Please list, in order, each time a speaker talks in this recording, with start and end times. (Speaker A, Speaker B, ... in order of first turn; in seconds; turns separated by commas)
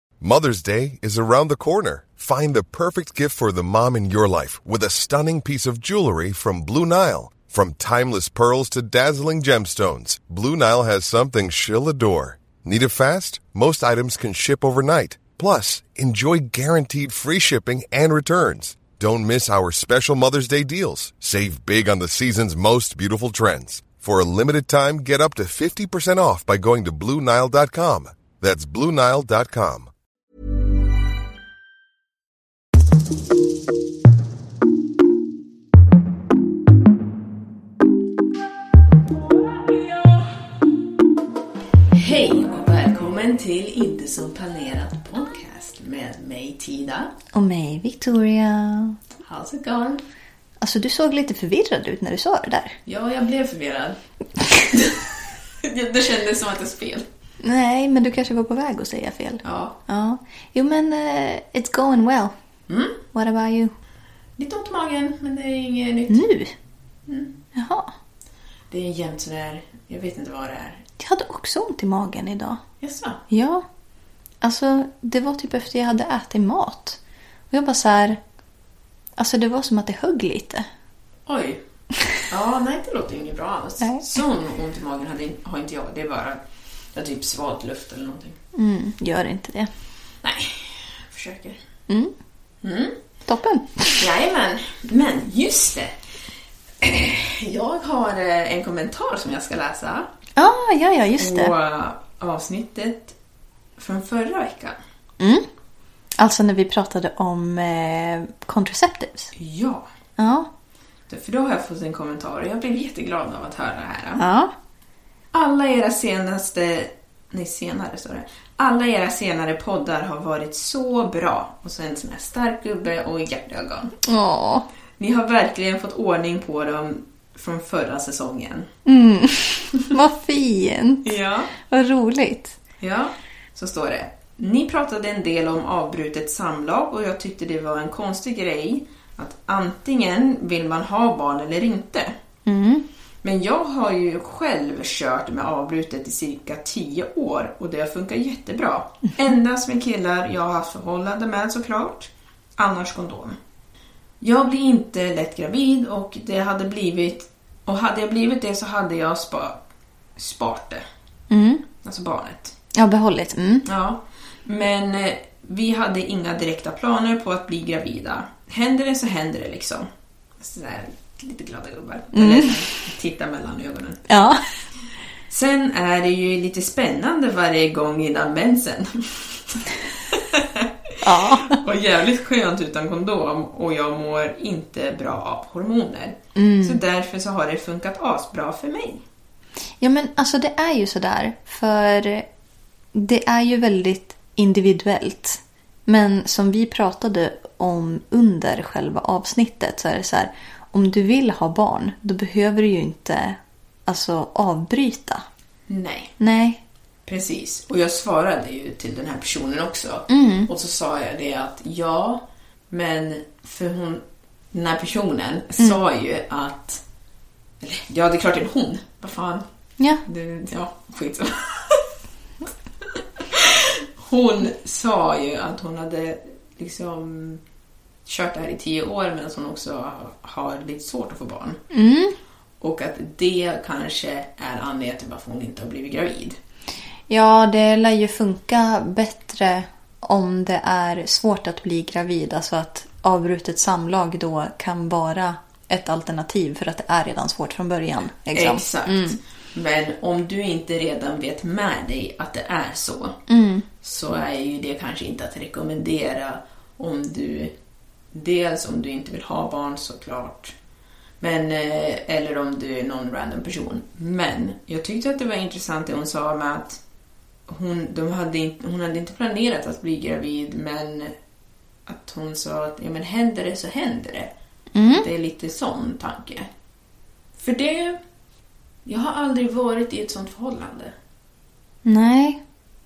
Speaker A: 0.2-29.9, Speaker B: 41.9-47.1, Speaker C: 47.3-49.0, Speaker B: 49.2-50.0, Speaker C: 50.6-52.8, Speaker B: 52.9-54.0, Speaker B: 54.5-57.1, Speaker C: 57.4-62.3, Speaker B: 59.4-59.8, Speaker B: 62.7-63.0, Speaker C: 63.1-63.7, Speaker B: 64.4-66.3, Speaker C: 66.1-66.5, Speaker B: 67.1-67.3, Speaker C: 67.5-67.9, Speaker B: 68.7-70.8, Speaker C: 71.0-72.6, Speaker B: 72.8-73.2, Speaker C: 73.3-73.7, Speaker C: 74.4-77.0, Speaker C: 77.5-78.2, Speaker C: 79.2-80.7, Speaker B: 81.3-81.6, Speaker B: 82.3-86.4, Speaker B: 86.9-88.4, Speaker C: 88.5-89.7, Speaker B: 90.2-91.6, Speaker C: 91.9-92.1, Speaker B: 92.6-93.0, Speaker C: 93.3-94.1, Speaker B: 94.0-95.9, Speaker B: 96.8-100.1, Speaker C: 100.3-101.5, Speaker B: 101.2-103.1, Speaker B: 103.8-104.8, Speaker C: 105.2-105.5, Speaker C: 106.2-109.3, Speaker B: 109.3-109.9, Speaker C: 110.2-110.5, Speaker B: 111.1-114.2, Speaker C: 114.2-114.5, Speaker B: 115.3-124.0, Speaker C: 124.0-124.7, Speaker B: 125.0-128.7, Speaker C: 128.8-132.6, Speaker B: 131.0-131.5, Speaker B: 132.8-142.1, Speaker C: 142.4-142.8, Speaker B: 143.2-153.3, Speaker B: 154.2-159.6, Speaker B: 160.2-160.8, Speaker C: 161.3-161.7, Speaker B: 161.8-162.5, Speaker C: 162.7-163.7, Speaker B: 163.7-169.9, Speaker B: 170.4-174.0, Speaker C: 172.1-172.5, Speaker C: 174.1-174.4, Speaker B: 175.3-189.0, Speaker C: 181.0-181.6, Speaker C: 186.3-186.8, Speaker C: 189.8-192.3, Speaker C: 192.9-205.2, Speaker B: 205.7-206.1, Speaker C: 206.2-206.6, Speaker B: 207.1-216.8, Speaker C: 210.1-210.5, Speaker B: 217.6-219.4, Speaker B: 220.1-221.8, Speaker B: 222.9-227.4, Speaker B: 228.1-231.6, Speaker C: 231.7-232.1, Speaker B: 232.6-236.4, Speaker C: 237.1-249.2, Speaker B: 248.3-253.2, Speaker C: 253.3-253.7, Speaker B: 253.8-257.5, Speaker B: 258.1-260.5, Speaker B: 261.2-266.8, Speaker B: 267.5-271.1, Speaker B: 271.9-274.3, Speaker C: 274.7-275.1, Speaker B: 274.9-276.5, Speaker B: 277.4-278.0, Speaker B: 278.9-280.9, Speaker C: 281.8-282.4